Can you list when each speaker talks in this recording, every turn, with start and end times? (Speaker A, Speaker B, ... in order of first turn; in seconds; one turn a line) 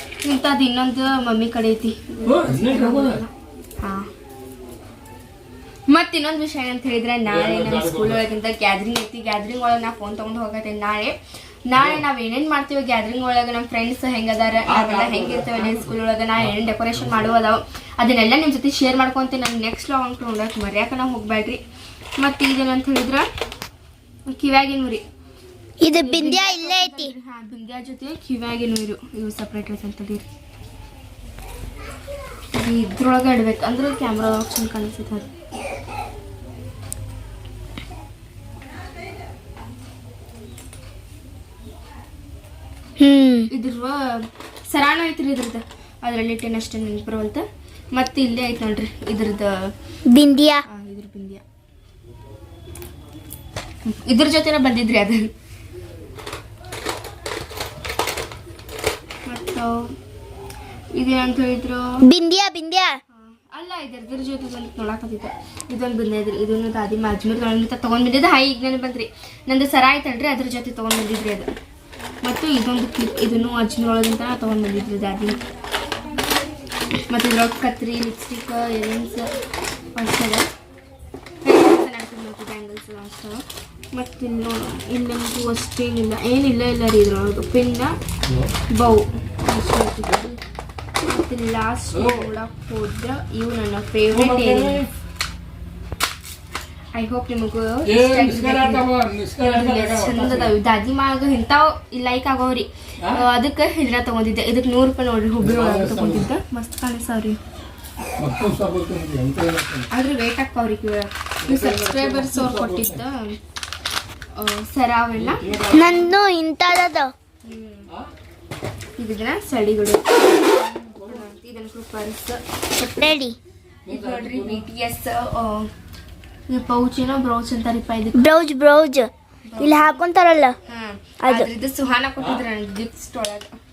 Speaker A: 0.2-4.1
Speaker B: 2.2-3.2
Speaker A: 5.9-21.6
Speaker B: 7.3-8.3
Speaker B: 11.8-12.1
Speaker B: 14.7-17.3
Speaker A: 22.2-23.3
Speaker A: 24.3-25.0
Speaker C: 25.8-27.1
Speaker A: 25.9-30.3
Speaker A: 32.5-35.3
Speaker C: 43.0-43.5
Speaker A: 43.5-49.7
Speaker C: 50.1-50.6
Speaker A: 50.7-51.4
Speaker A: 53.9-55.3
Speaker A: 59.3-59.9
Speaker A: 61.0-62.0
Speaker C: 62.0-63.0
Speaker A: 63.1-71.5
Speaker A: 72.2-75.4
Speaker A: 77.1-79.3
Speaker A: 79.9-80.5
Speaker A: 81.4-88.0
Speaker B: 88.2-88.5
Speaker A: 88.7-90.4
Speaker A: 91.0-94.8
Speaker B: 91.9-92.3
Speaker B: 94.1-94.9
Speaker A: 96.9-98.9
Speaker B: 97.8-100.5
Speaker A: 99.4-107.4
Speaker B: 103.0-103.3
Speaker B: 105.4-106.3
Speaker B: 108.2-109.9
Speaker A: 109.9-113.4
Speaker B: 111.4-113.0
Speaker A: 114.3-115.5
Speaker B: 115.1-116.2
Speaker C: 115.7-117.1
Speaker A: 117.4-117.9
Speaker A: 119.0-123.2
Speaker B: 120.8-121.3
Speaker C: 123.0-123.4
Speaker B: 123.9-124.7
Speaker A: 123.9-125.7
Speaker A: 126.5-128.2
Speaker C: 128.1-130.6
Speaker A: 129.4-130.0
Speaker A: 130.7-133.5
Speaker B: 132.2-132.4